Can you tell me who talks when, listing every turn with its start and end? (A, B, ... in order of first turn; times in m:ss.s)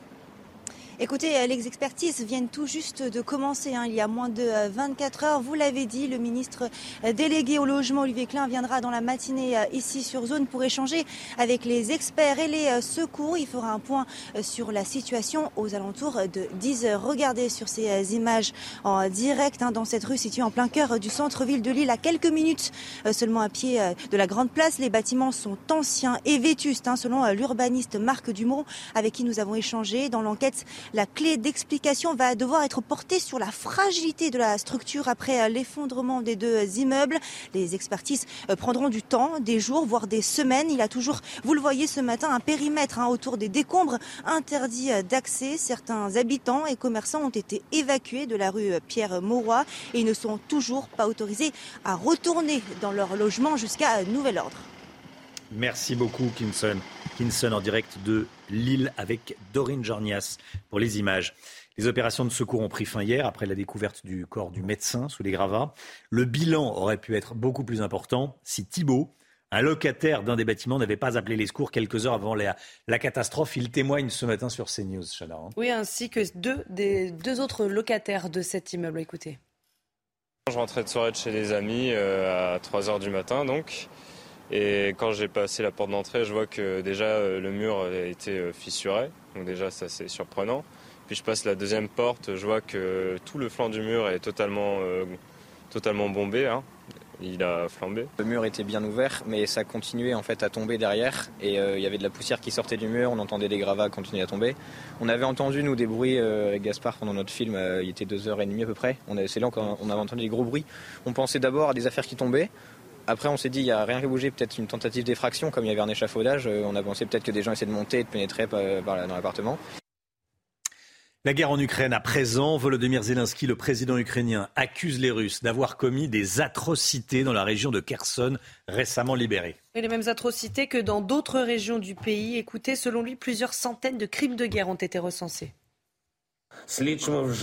0:01.0-0:54.7 A
0:55.5-1:15.6 B
1:15.6-1:19.4 C
1:20.5-1:23.9 D
1:24.5-1:35.2 D
1:35.7-1:36.7 D
1:37.2-1:38.1 D
1:38.2-1:52.5 E
1:53.1-1:59.6 E
2:01.2-2:09.6 B
2:09.7-2:15.5 C